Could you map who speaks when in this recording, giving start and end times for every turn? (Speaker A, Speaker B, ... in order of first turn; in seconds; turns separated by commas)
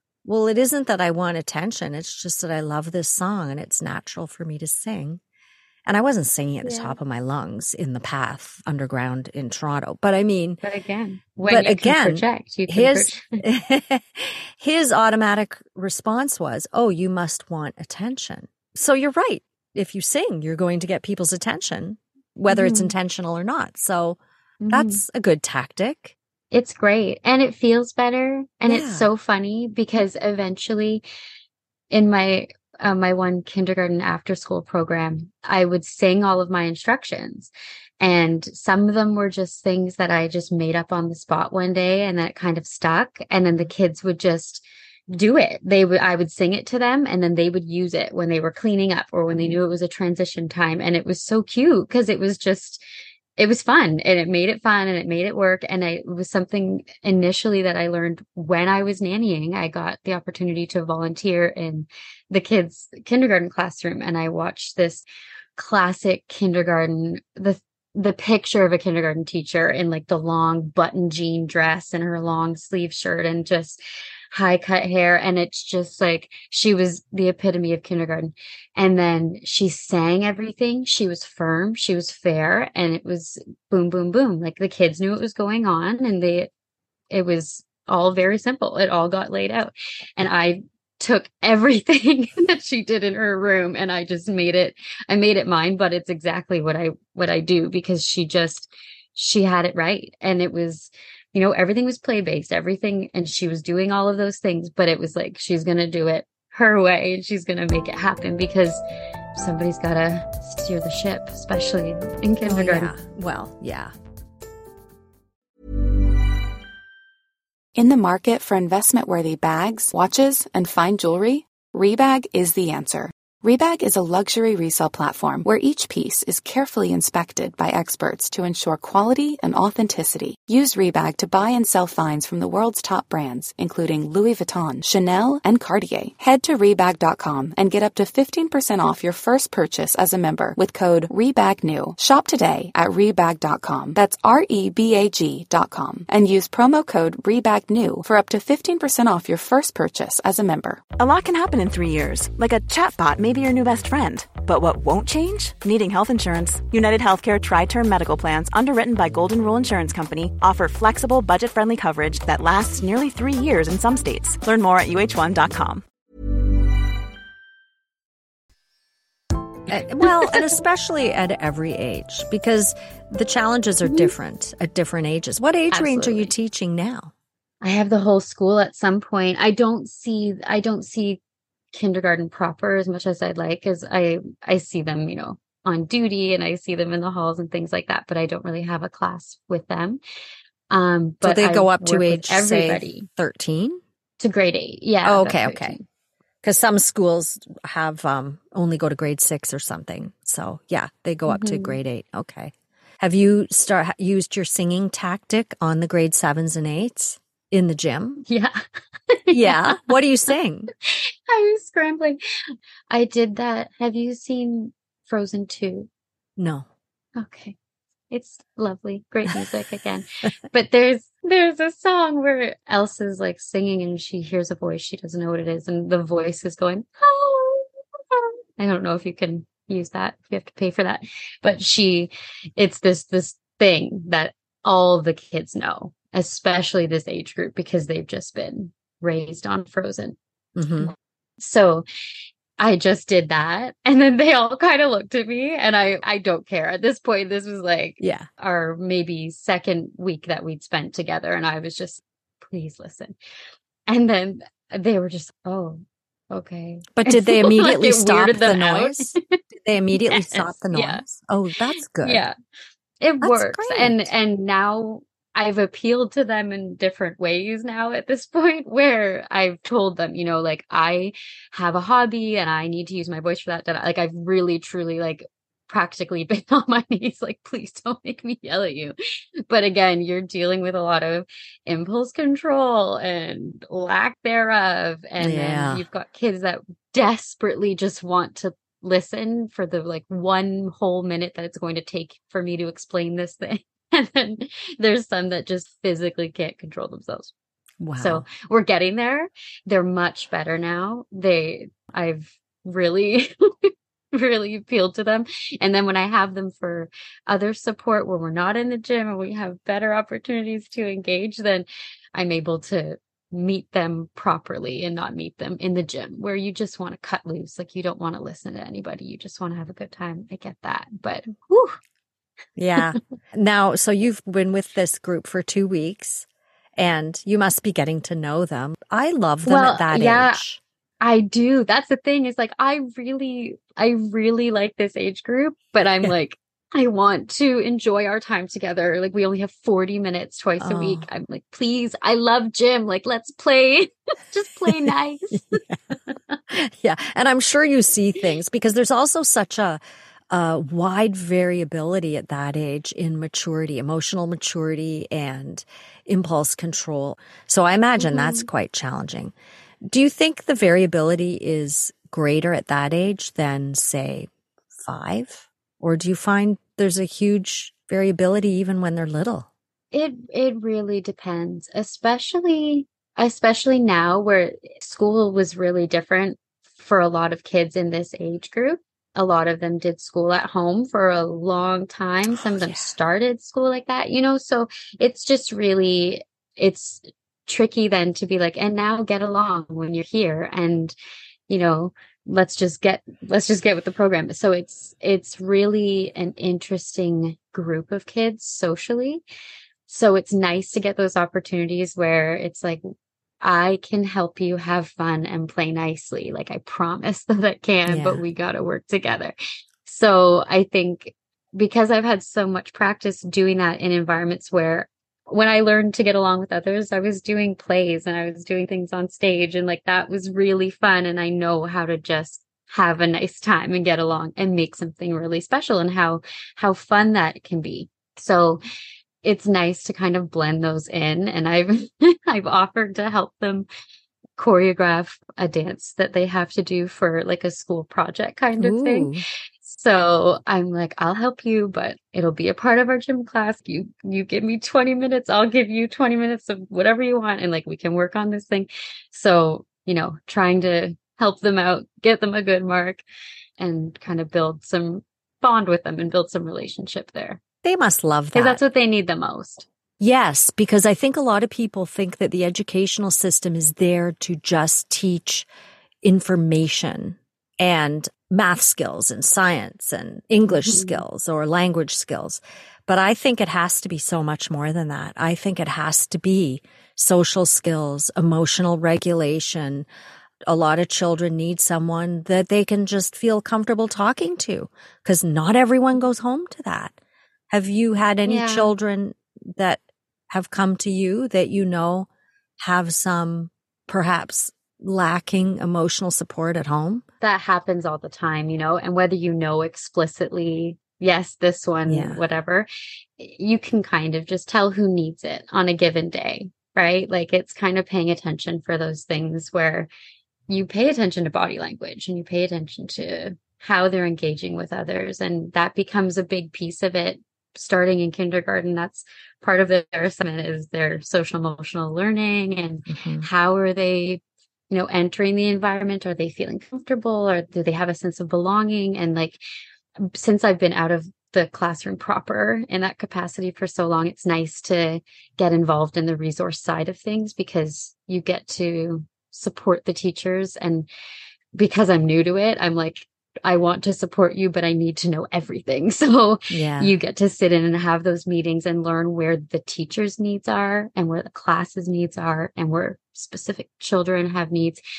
Speaker A: 0.2-5.2, Speaker A: 5.9-10.6, Speaker B: 6.6-7.0, Speaker B: 10.6-13.4, Speaker A: 11.5-24.2, Speaker B: 22.5-22.9, Speaker B: 24.6-25.0, Speaker A: 24.7-26.1, Speaker B: 26.5-31.0, Speaker A: 28.7-29.1, Speaker B: 31.9-52.8, Speaker B: 53.4-65.0, Speaker B: 65.6-73.8, Speaker B: 74.3-86.5, Speaker B: 87.1-108.8, Speaker B: 109.4-112.9, Speaker A: 112.4-113.9, Speaker C: 117.8-150.9, Speaker D: 150.9-165.8, Speaker A: 169.7-177.1, Speaker B: 173.9-174.1, Speaker B: 175.7-176.3, Speaker B: 177.6-181.2, Speaker B: 181.7-190.0, Speaker B: 190.7-193.1, Speaker A: 191.2-193.8, Speaker B: 194.2-195.8, Speaker A: 195.0-195.8, Speaker A: 196.4-208.2, Speaker B: 201.3-201.8, Speaker B: 208.3-208.6, Speaker B: 209.1-209.8, Speaker A: 209.3-210.7, Speaker B: 210.9-212.2, Speaker B: 212.9-215.9, Speaker A: 216.4-216.7, Speaker B: 217.2-217.6, Speaker B: 218.1-240.2, Speaker A: 240.6-240.9, Speaker B: 240.8-241.9, Speaker B: 242.6-253.2, Speaker A: 248.0-248.3, Speaker B: 253.9-259.3, Speaker A: 256.9-262.2, Speaker B: 259.9-261.1, Speaker B: 262.0-262.4, Speaker B: 263.0-278.9, Speaker A: 263.2-264.1, Speaker B: 279.5-297.3, Speaker A: 285.2-285.8, Speaker A: 297.8-298.2, Speaker B: 298.0-321.8, Speaker A: 322.6-330.6, Speaker B: 329.4-330.4, Speaker B: 331.0-346.4, Speaker A: 340.6-341.1, Speaker A: 344.8-346.0, Speaker A: 346.5-359.3, Speaker B: 358.0-358.5, Speaker A: 359.9-364.3, Speaker A: 364.8-369.5, Speaker B: 369.9-390.9, Speaker A: 382.3-382.9, Speaker B: 391.5-399.2, Speaker B: 399.9-402.8, Speaker B: 403.4-428.6, Speaker A: 407.9-408.2, Speaker B: 429.2-433.7, Speaker B: 434.4-453.0, Speaker A: 438.6-439.2, Speaker B: 453.6-457.4, Speaker A: 457.6-458.6, Speaker B: 458.3-459.7, Speaker A: 460.0-465.5, Speaker A: 466.0-479.9, Speaker B: 470.6-471.0, Speaker A: 480.5-487.0, Speaker A: 487.5-492.1, Speaker B: 488.3-488.7, Speaker A: 492.6-497.0, Speaker B: 497.2-502.7, Speaker A: 501.9-502.2, Speaker B: 503.2-509.9, Speaker B: 510.5-529.4, Speaker A: 522.9-523.3, Speaker B: 530.0-540.9, Speaker B: 541.5-554.8, Speaker A: 546.5-546.9